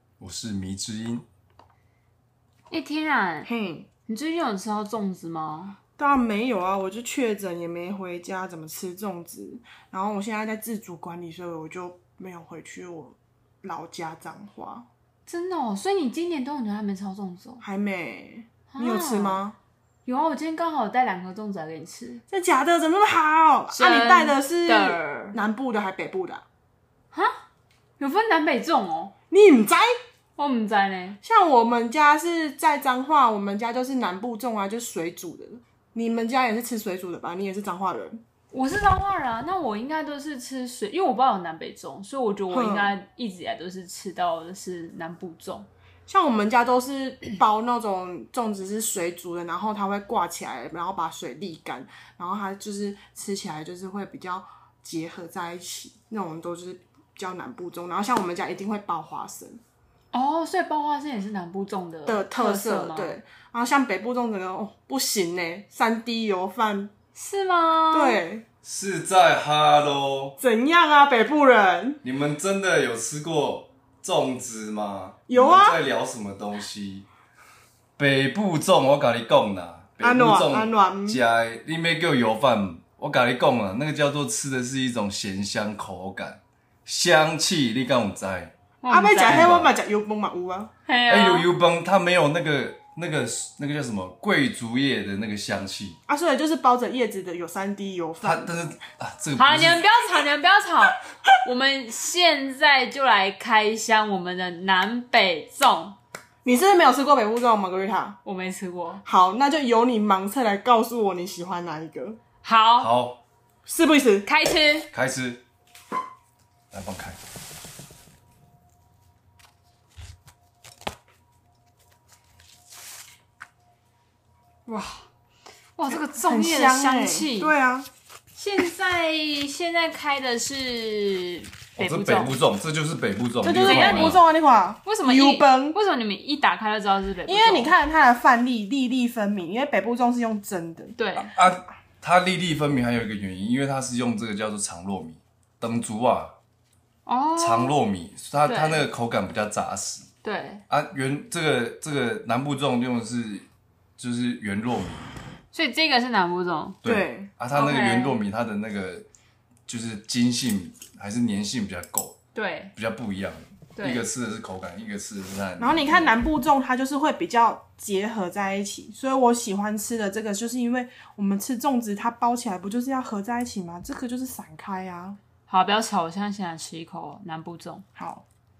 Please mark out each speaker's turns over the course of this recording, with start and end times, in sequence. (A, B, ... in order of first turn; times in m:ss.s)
0:00.2-0:01.2 A
0:02.7-0:03.5 B
0:03.4-0:03.9 C
0:04.1-0:05.8 B
0:06.0-0:14.9 C
0:15.3-0:17.6 B
0:17.6-0:19.6 C
0:18.7-0:19.4 B
0:20.0-0:22.2 B
0:22.3-0:26.4 C
0:23.7-0:25.4 B
0:28.0-0:29.1 B
0:29.3-0:29.9 C
0:30.4-0:31.2 B
0:31.2-0:38.2 C
0:38.5-0:45.7 B
0:42.5-0:42.9 C
0:46.1-0:59.6 C
1:00.1-1:03.2 B
1:02.0-1:06.9 C
1:07.1-1:08.2 B
1:07.9-1:08.4 C
1:08.6-1:10.4 A
1:10.4-1:12.0 C
1:12.0-1:17.1 A
1:15.3-1:15.8 C
1:18.0-1:28.5 A
1:20.0-1:21.2 C
1:28.8-1:29.5 B
1:28.9-1:30.7 C
1:29.2-1:29.7 A
1:30.8-1:31.5 B
1:31.1-1:36.0 A
1:36.1-1:38.6 C
1:38.2-1:39.9 A
1:39.4-1:46.0 B
1:46.4-1:48.2 C
1:48.2-1:49.0 B
1:49.0-1:52.2 C
1:52.4-1:52.9 B
1:52.8-1:53.2 A
1:53.6-1:54.3 C
1:54.2-1:54.9 B
1:54.9-1:55.4 A
1:56.7-1:57.2 A
2:04.7-2:05.0 B
2:05.8-2:07.5 B
2:05.9-2:07.9 C
2:08.3-2:12.4 B
2:11.8-2:14.2 A
2:13.4-2:15.8 C
2:13.6-2:14.2 B
2:14.8-2:17.7 B
2:17.3-2:21.0 C
2:21.0-2:21.3 B
2:21.2-2:26.3 A
2:27.0-2:27.7 B
2:27.4-2:30.1 A
2:28.4-2:28.8 B
2:30.2-2:30.6 B
2:30.7-2:33.5 A
2:34.0-2:35.1 A
2:35.5-2:36.8 B
2:36.8-2:37.3 C
2:36.8-2:39.0 A
2:37.5-2:38.2 B
2:39.7-2:42.2 A
2:42.3-2:42.7 B
2:42.7-2:46.2 A
2:43.8-2:44.0 B
2:45.6-2:55.2 C
2:55.5-2:57.8 B
2:58.0-2:58.2 C